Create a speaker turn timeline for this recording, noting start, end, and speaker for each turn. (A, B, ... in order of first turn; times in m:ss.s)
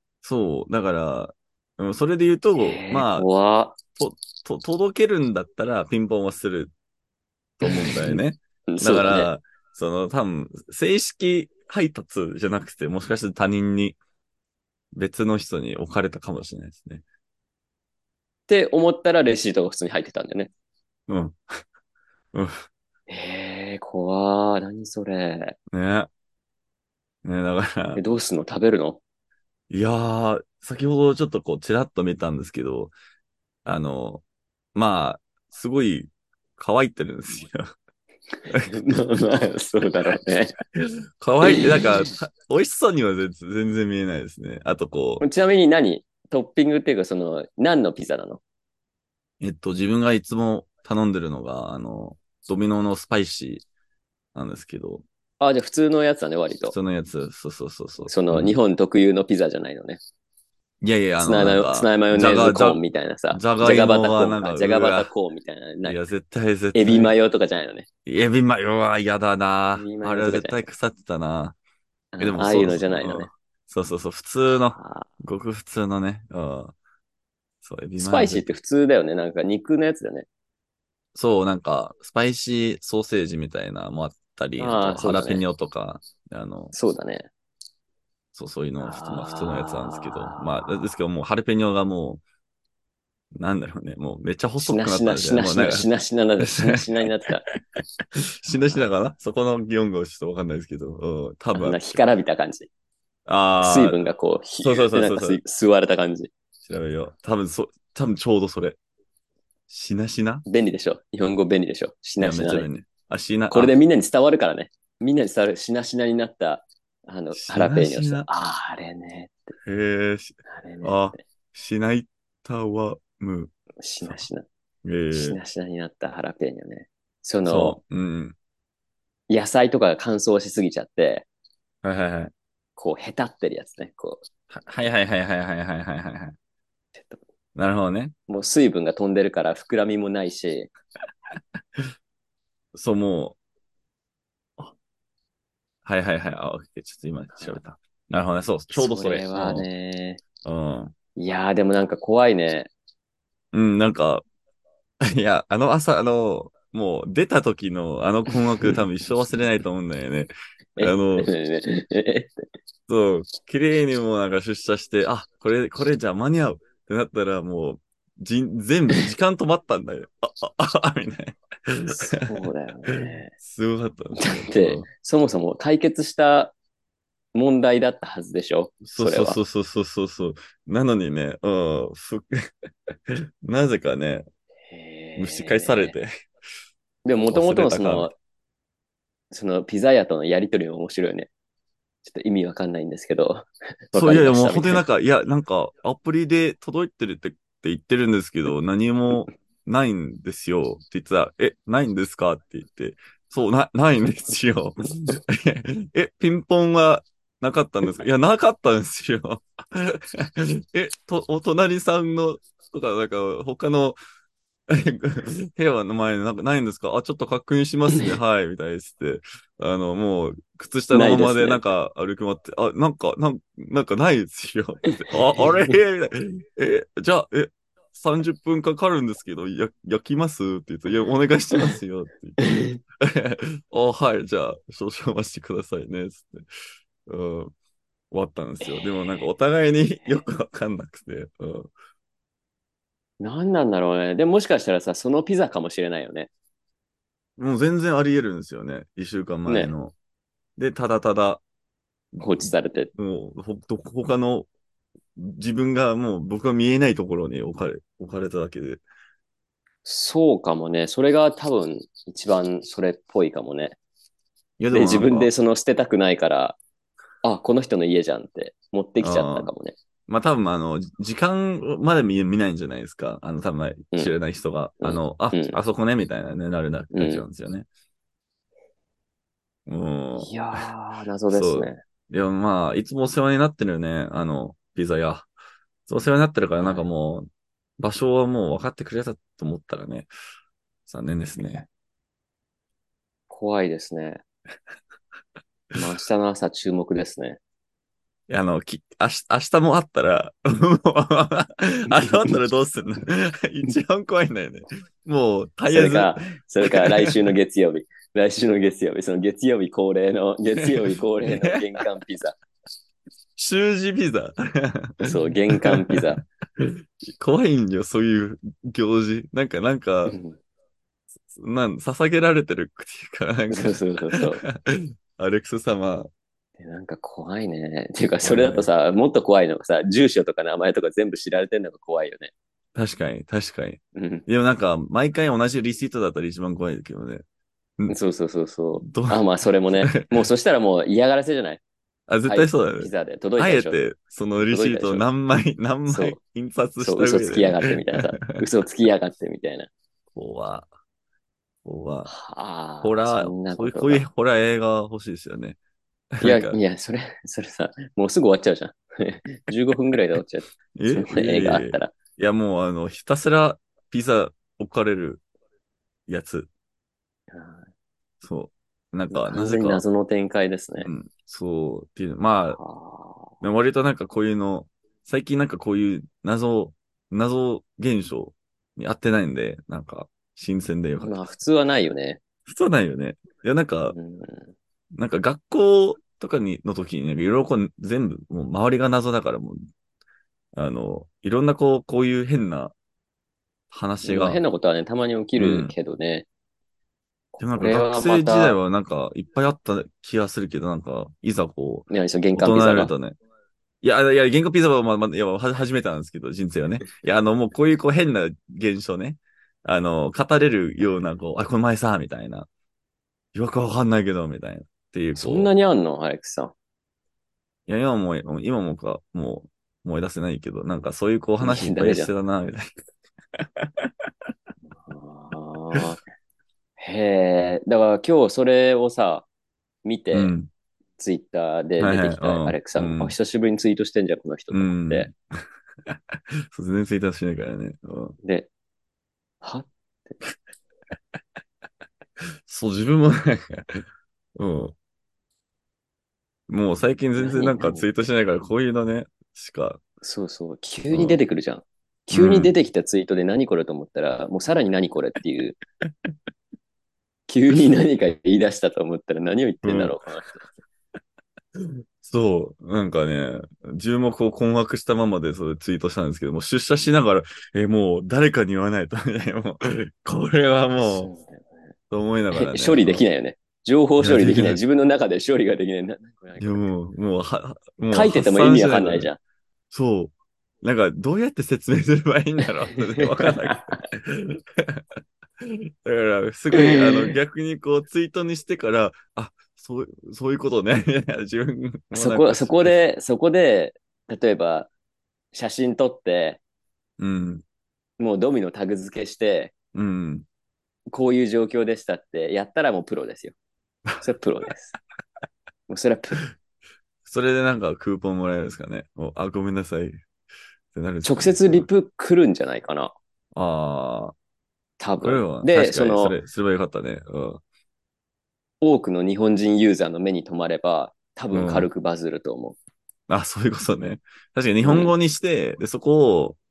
0:00.2-0:03.3 A
0:02.6-0:03.8 B
0:04.0-0:06.7 A
0:07.6-0:14.0 A
0:07.6-0:09.3 B
0:14.9-0:17.0 A
0:18.5-0:20.5 B
0:21.1-0:21.4 A
0:22.3-0:22.6 A
0:23.1-0:25.6 B
0:25.7-0:26.1 A
0:27.2-0:28.0 A
0:28.0-0:29.0 B
0:29.7-0:32.9 A
0:33.6-0:34.2 A
0:34.8-0:37.7 A
0:38.5-0:38.8 A
0:38.6-0:40.6 B
0:40.8-0:45.2 A
0:41.4-0:42.1 B
0:45.2-0:48.4 B
0:49.4-0:53.6 A
0:54.4-0:55.0 A
0:55.4-0:56.8 B
0:56.7-0:58.6 A
0:58.1-1:00.0 B
1:00.8-1:02.8 A
1:01.2-1:06.0 B
1:03.3-1:05.1 A
1:05.8-1:07.2 A
1:06.7-1:07.9 B
1:08.0-1:11.6 A
1:09.8-1:10.6 B
1:12.1-1:13.3 B
1:12.2-1:16.8 A
1:14.7-1:15.1 B
1:17.6-1:18.5 A
1:18.0-1:20.3 B
1:21.2-1:26.7 A
1:24.6-1:25.4 B
1:26.7-1:27.3 B
1:28.4-1:32.2 A
1:28.8-1:31.0 B
1:33.4-1:35.9 A
1:34.6-1:37.4 B
1:36.4-1:37.6 A
1:38.2-1:42.0 A
1:38.5-1:38.9 B
1:41.6-1:42.7 B
1:43.3-1:44.0 A
1:43.6-1:46.3 B
1:44.6-1:45.4 A
1:46.6-1:48.8 A
1:49.7-1:50.4 A
1:50.5-1:52.7 B
1:52.2-1:53.7 A
1:53.5-1:59.5 B
1:57.3-1:58.3 A
1:59.6-2:04.3 A
2:00.5-2:01.2 B
2:03.8-2:04.5 B
2:04.8-2:05.4 A
2:05.1-2:07.8 B
2:07.5-2:08.4 A
2:09.3-2:11.3 B
2:11.8-2:12.3 A
2:12.8-2:14.2 B
2:14.5-2:16.4 A
2:17.0-2:17.2 B
2:17.6-2:18.2 A
2:18.3-2:20.7 B
2:22.7-2:23.4 A
2:25.8-2:29.7 A
2:27.4-2:27.6 B
2:28.7-2:30.2 B
2:30.4-2:31.0 A
2:31.2-2:32.7 B
2:33.5-2:34.3 A
2:35.0-2:41.3 A
2:38.3-2:38.8 B
2:40.8-2:42.4 B
2:42.9-2:52.3 A
2:51.9-2:53.3 B
2:52.9-2:54.9 A
2:54.2-2:56.6 B
2:57.3-2:59.4 B
2:58.8-3:02.5 A
3:03.1-3:04.3 A
3:04.7-3:05.9 B
3:05.2-3:06.1 A
3:07.0-3:08.1 B
3:07.3-3:08.1 A
3:09.3-3:11.3 B
3:12.0-3:14.8 B
3:13.9-3:34.0 A
3:34.7-3:56.5 A
3:40.9-3:41.6 B
3:45.3-3:45.7 B
3:52.4-3:52.8 B
3:57.1-3:57.5 A
3:58.1-4:01.7 A
3:58.6-3:59.3 B
4:03.2-4:06.3 B
4:07.4-4:09.9 A
4:09.5-4:09.7 B
4:10.6-4:11.4 A
4:12.1-4:14.5 A
4:12.2-4:12.9 B
4:15.2-4:18.8 A
4:19.8-4:23.8 B
4:24.6-4:25.3 A
4:24.7-4:26.6 B
4:27.2-4:29.8 B
4:29.0-4:29.5 A
4:30.1-4:37.7 A
4:34.8-4:35.6 B
4:36.9-4:37.2 B
4:39.7-4:40.7 A
4:40.2-4:41.8 B
4:41.3-4:45.3 A
4:45.9-4:47.3 A
4:46.6-4:46.9 B
4:47.8-4:50.1 A
4:50.9-4:51.7 A
4:53.3-4:54.2 B
4:55.8-4:57.4 B
4:58.3-5:07.3 A
5:01.9-5:02.4 B
5:05.7-5:12.4 B
5:10.6-5:11.6 A
5:13.4-5:20.2 A
5:15.0-5:16.2 B
5:20.1-5:20.4 B
5:21.3-5:26.1 A
5:23.5-5:24.4 B
5:26.6-5:32.3 B
5:28.2-5:28.7 A
5:32.8-5:37.2 A
5:34.0-5:34.2 B
5:37.9-5:41.6 B
5:38.8-5:40.3 A
5:42.1-5:48.4 A
5:42.2-5:43.8 B
5:44.5-5:45.0 B
5:45.9-5:46.2 B
5:46.8-5:49.7 B
5:50.1-5:50.7 A
5:51.6-5:52.1 A
5:52.1-5:54.0 B
5:52.8-5:55.6 A
5:56.1-5:56.6 A
5:56.2-6:01.9 B
6:00.8-6:05.2 A
6:06.1-6:06.5 A
6:07.3-6:07.7 B
6:08.2-6:09.8 A
6:09.1-6:10.9 B
6:10.8-6:12.6 A
6:12.6-6:13.3 B
6:13.4-6:21.2 A
6:21.0-6:22.2 B
6:22.5-6:24.0 A
6:23.9-6:24.5 B
6:24.9-6:29.6 A
6:30.5-6:32.7 A
6:33.7-6:34.4 A
6:34.0-6:36.3 B
6:35.4-6:35.7 A
6:37.3-6:38.6 B
6:37.4-6:43.2 A
6:41.9-6:42.9 B
6:43.8-6:52.5 A
6:53.4-6:55.5 A
6:55.2-6:56.6 B
6:57.7-7:02.7 A
7:01.4-7:02.1 B
7:03.4-7:03.9 A
7:04.7-7:06.0 B
7:06.8-7:09.3 B
7:09.8-7:10.3 B
7:10.1-7:10.5 A
7:11.0-7:15.1 B
7:11.8-7:13.2 A
7:14.5-7:15.2 A
7:16.5-7:18.2 A
7:18.2-7:18.5 B
7:19.4-7:20.1 B
7:22.5-7:23.8 A
7:24.4-7:24.8 A
7:26.5-7:29.8 A
7:27.2-7:27.8 B
7:30.0-7:35.6 B
7:30.9-7:31.2 A
7:32.1-7:32.5 A
7:37.3-7:40.4 B
7:39.6-7:40.0 A
7:41.6-7:51.1 A
7:50.8-7:51.6 B
7:51.9-7:53.0 A
7:52.3-7:56.7 B
7:54.0-7:54.6 A
7:56.4-7:59.1 A
7:57.9-7:59.2 B
7:59.7-8:04.8 A
8:02.8-8:03.8 B
8:05.4-8:12.8 A
8:06.6-8:07.1 B
8:11.9-8:14.7 B
8:15.3-8:16.4 B
8:17.0-8:17.4 A
8:18.0-8:19.5 B
8:19.7-8:20.3 A
8:20.9-8:23.4 B
8:24.0-8:24.7 B
8:25.7-8:26.2 B
8:27.0-8:30.0 A
8:30.7-8:31.7 A
8:31.0-8:32.9 B
8:33.3-8:34.2 A
8:34.8-8:36.2 B
8:35.0-8:37.4 A
8:38.6-8:42.6 B
8:41.3-8:41.7 A
8:43.1-8:46.4 A
8:44.6-8:44.9 B